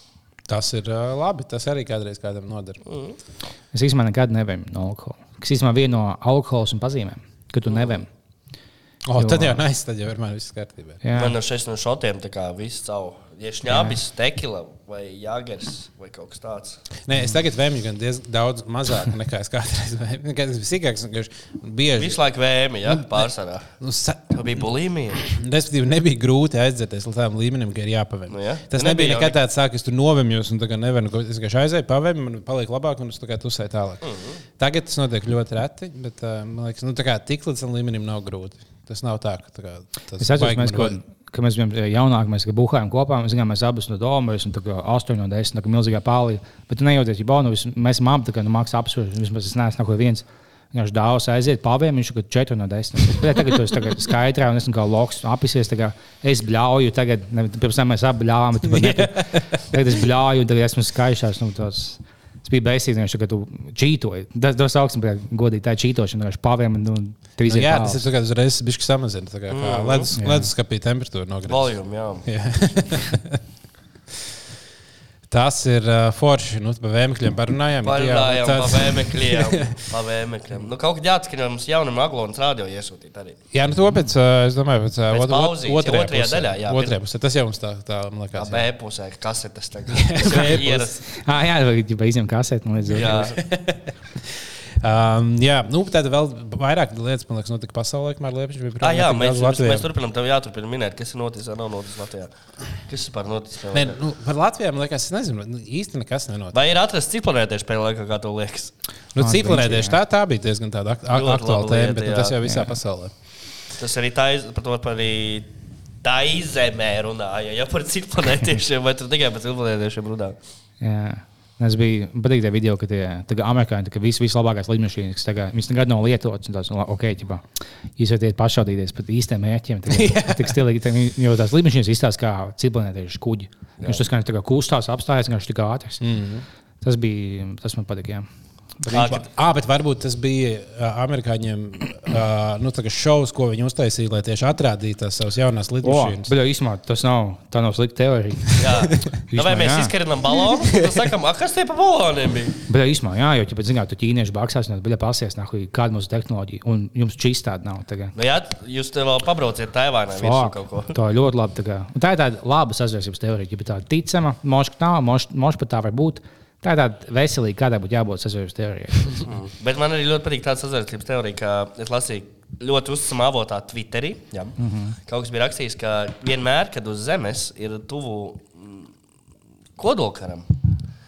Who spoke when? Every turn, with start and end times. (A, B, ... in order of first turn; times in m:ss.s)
0:00.5-0:02.8 A
0:02.9-0:03.2 B
0:03.7-0:08.1 C
0:07.7-0:08.0 B
0:09.1-0:11.0 A
0:09.2-0:09.6 C
0:11.0-0:11.4 C
0:11.1-0:16.8 B
0:13.7-0:14.0 C
0:17.1-0:22.2 A
0:22.0-0:23.7 B
0:22.8-0:41.0 A
0:24.3-0:25.2 B
0:28.3-0:29.4 B
0:34.0-0:34.4 B
0:40.2-1:08.0 C
0:58.6-0:59.8 A
1:07.4-1:13.4 A
1:09.5-1:10.1 B
1:10.2-1:10.5 C
1:11.5-1:12.3 B
1:15.3-1:19.8 A
1:17.8-1:23.4 B
1:23.5-1:28.7 A
1:25.1-1:26.9 B
1:28.4-1:31.0 B
1:29.9-1:31.0 A
1:31.2-1:33.3 C
1:32.9-1:33.4 B
1:33.1-1:39.9 A
1:38.8-1:44.0 B
1:43.7-1:46.6 A
1:46.5-1:48.7 B
1:49.2-1:53.1 A
1:49.2-1:50.0 C
1:51.1-1:52.4 B
1:52.4-1:52.7 C
1:53.8-1:55.5 B
1:56.0-2:00.4 B
2:00.8-2:07.4 C
2:08.0-2:16.0 C
2:09.9-2:10.6 A
2:16.0-2:16.4 A
2:16.8-2:18.3 C
2:18.8-2:26.3 A
2:18.9-2:19.2 B
2:25.8-2:28.6 C
2:28.6-2:32.6 B
2:29.3-2:29.9 C
2:30.4-2:31.0 A
2:32.7-2:38.1 C
2:38.2-2:41.0 B
2:40.2-2:49.2 C
2:49.3-2:58.9 B
2:54.6-2:55.0 C
2:59.8-3:00.6 B